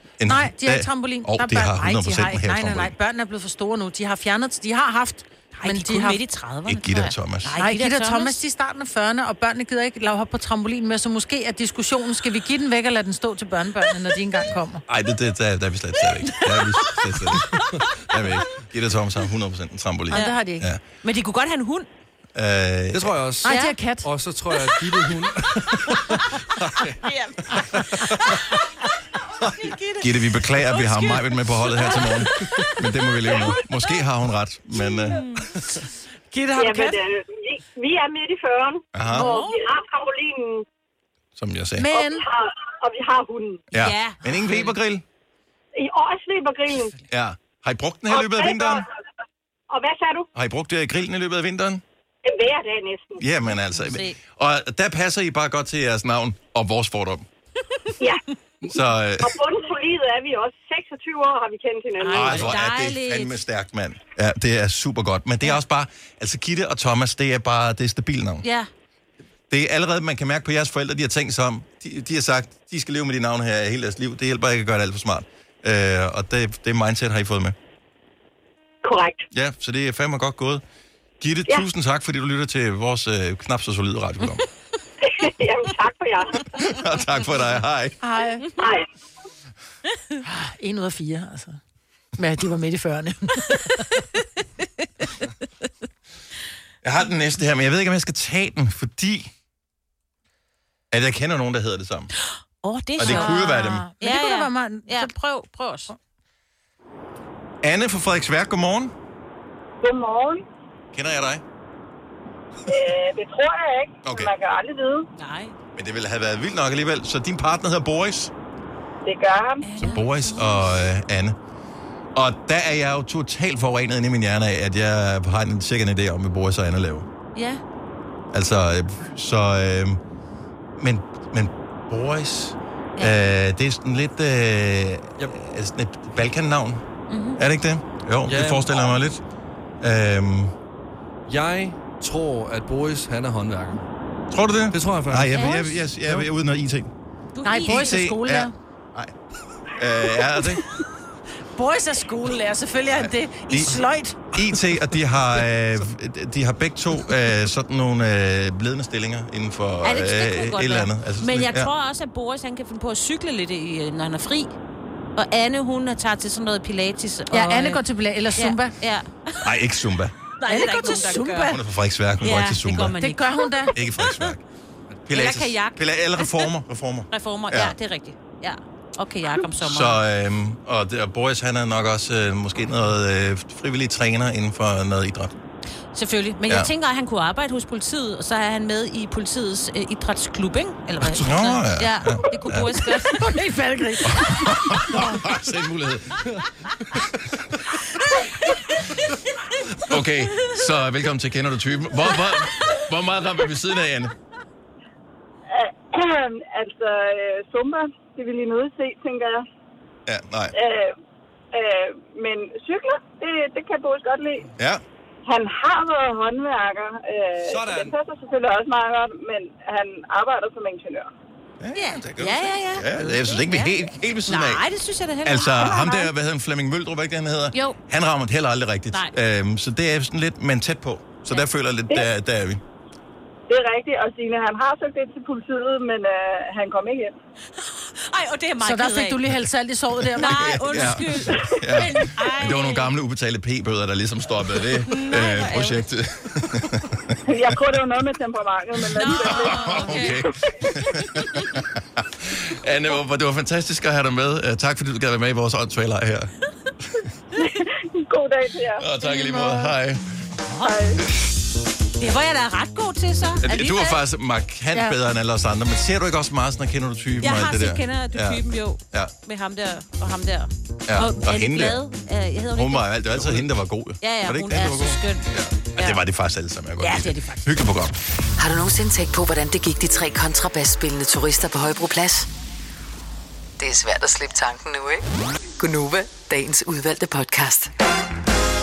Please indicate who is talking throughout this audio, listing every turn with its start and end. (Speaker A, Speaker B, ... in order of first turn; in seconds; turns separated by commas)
Speaker A: 0.2-2.9, Speaker B: 0.3-6.2, Speaker C: 5.5-8.4, Speaker A: 6.7-7.5, Speaker B: 7.6-14.8, Speaker A: 14.9-20.8, Speaker C: 16.4-17.4, Speaker B: 20.1-20.7, Speaker C: 20.1-20.4, Speaker C: 21.0-21.9, Speaker A: 22.3-23.1, Speaker D: 22.9-26.9, Speaker B: 23.4-24.1, Speaker C: 23.4-23.7, Speaker C: 24.5-24.8, Speaker C: 27.0-28.6, Speaker C: 29.4-30.1, Speaker A: 30.0-35.2, Speaker C: 30.6-33.6, Speaker C: 35.0-35.5, Speaker B: 36.3-37.0, Speaker E: 36.5-40.6, Speaker A: 38.9-39.3, Speaker C: 39.1-39.6, Speaker B: 39.2-39.5, Speaker A: 41.4-41.9, Speaker B: 41.8-42.2, Speaker E: 41.9-43.6, Speaker A: 43.7-45.0, Speaker C: 43.7-44.7, Speaker E: 45.7-46.9, Speaker A: 47.1-48.8, Speaker E: 48.1-48.8, Speaker E: 49.7-50.3, Speaker A: 50.3-51.8, Speaker E: 52.2-53.2, Speaker A: 53.2-57.3, Speaker C: 53.8-54.2, Speaker A: 58.7-59.4, Speaker E: 59.2-62.4, Speaker C: 62.0-63.4, Speaker A: 62.1-68.5, Speaker C: 68.4-68.7, Speaker A: 69.5-77.5, Speaker E: 78.8-79.2, Speaker A: 79.3-80.6, Speaker A: 81.2-84.4, Speaker E: 85.0-86.7, Speaker A: 86.5-88.0, Speaker B: 88.0-88.5, Speaker E: 88.6-88.9, Speaker B: 90.2-91.6, Speaker B: 92.2-93.8, Speaker A: 96.8-99.3, Speaker A: 100.9-102.1, Speaker C: 102.6-105.9, Speaker A: 103.0-103.8, Speaker B: 103.0-105.1, Speaker A: 107.6-108.9, Speaker E: 109.8-110.4, Speaker A: 110.9-111.4, Speaker E: 112.7-115.1, Speaker A: 114.0-114.3, Speaker C: 115.2-115.5, Speaker A: 115.8-118.3, Speaker E: 119.0-119.6, Speaker C: 119.6-120.7, Speaker A: 119.8-121.4, Speaker A: 122.1-127.1, Speaker C: 127.3-127.6, Speaker A: 128.3-130.0, Speaker A: 130.8-136.8, Speaker C: 137.1-137.4, Speaker A: 137.3-139.2, Speaker D: 138.3-138.9, Speaker A: 139.8-140.5, Speaker D: 141.3-143.8, Speaker A: 144.3-146.9, Speaker D: 144.7-146.3, Speaker C: 145.3-145.8, Speaker C: 147.3-148.0, Speaker B: 147.4-148.5, Speaker A: 147.6-149.1, Speaker A: 149.7-150.6, Speaker B: 151.5-154.2, Speaker A: 153.0-153.8, Speaker A: 154.3-161.7, Speaker C: 159.8-164.5, Speaker C: 165.2-167.8, Speaker B: 167.3-168.7, Speaker C: 168.3-169.5, Speaker A: 169.4-170.1, Speaker C: 170.4-171.5, Speaker B: 170.5-171.6, Speaker A: 171.5-173.0, Speaker C: 172.2-174.2, Speaker B: 173.0-173.7, Speaker A: 173.7-174.4, Speaker A: 175.1-177.8, Speaker C: 175.1-176.5, Speaker C: 177.1-180.0, Speaker A: 179.6-185.3, Speaker C: 185.9-193.3, Speaker A: 191.0-192.8, Speaker B: 193.1-195.2, Speaker A: 194.1-196.4, Speaker A: 199.8-204.1, Speaker E: 205.5-209.4, Speaker A: 210.1-210.5, Speaker E: 210.5-210.9, Speaker E: 211.5-214.5, Speaker E: 215.2-221.1, Speaker D: 217.5-217.9, Speaker A: 217.5-217.7, Speaker A: 221.6-224.6, Speaker C: 221.7-226.1, Speaker A: 225.2-232.6, Speaker E: 233.5-237.1, Speaker C: 237.6-239.2, Speaker B: 238.6-240.6, Speaker C: 240.2-242.9, Speaker A: 240.2-247.5, Speaker C: 244.7-245.9, Speaker E: 247.3-249.8, Speaker C: 248.9-251.5, Speaker A: 249.2-256.3, Speaker B: 249.7-250.0, Speaker E: 257.4-258.9, Speaker A: 258.8-260.3, Speaker B: 259.0-259.7, Speaker C: 260.5-260.9, Speaker E: 260.6-261.0, Speaker C: 262.0-264.0, Speaker A: 263.4-269.1, Speaker C: 267.2-273.3, Speaker A: 270.9-271.8, Speaker A: 272.5-278.0, Speaker C: 274.0-276.0, Speaker C: 276.8-277.5, Speaker F: 278.4-282.3, Speaker F: 283.6-285.0, Speaker F: 285.6-287.7